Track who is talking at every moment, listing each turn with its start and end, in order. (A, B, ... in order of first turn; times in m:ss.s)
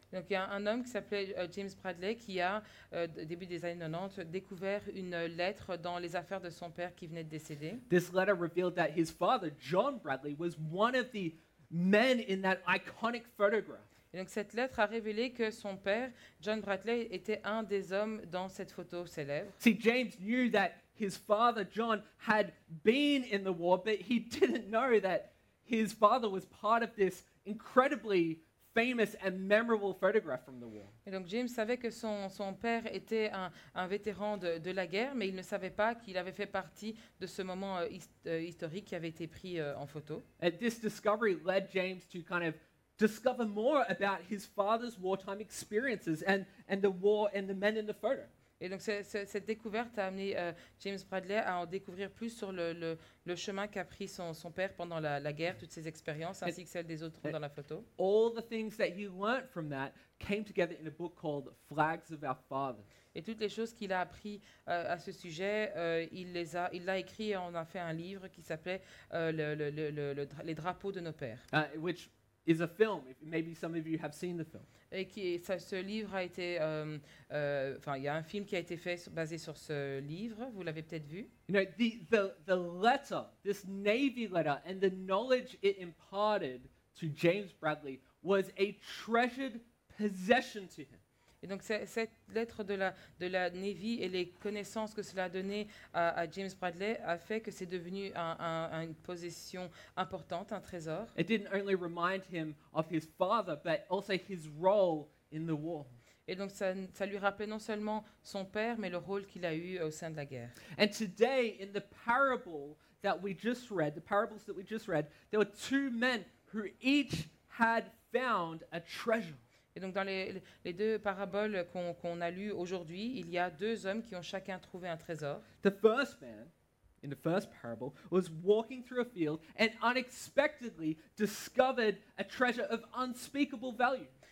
0:00.1-0:07.8 A
0:07.9-0:13.9 B
0:14.1-0:19.6 A
0:19.6-0:30.9 B
0:31.1-0:40.3 A
0:40.4-0:48.3 B
0:48.6-0:57.9 A
0:58.0-1:02.9 B
1:03.1-1:11.5 A
1:11.5-1:14.7 B
1:14.9-1:21.3 A
1:21.5-1:31.0 B
1:31.4-1:41.2 A
1:41.2-1:45.9 B
1:46.3-1:50.6 A
1:50.8-1:59.4 B
1:59.8-2:05.5 A
2:05.6-2:14.1 B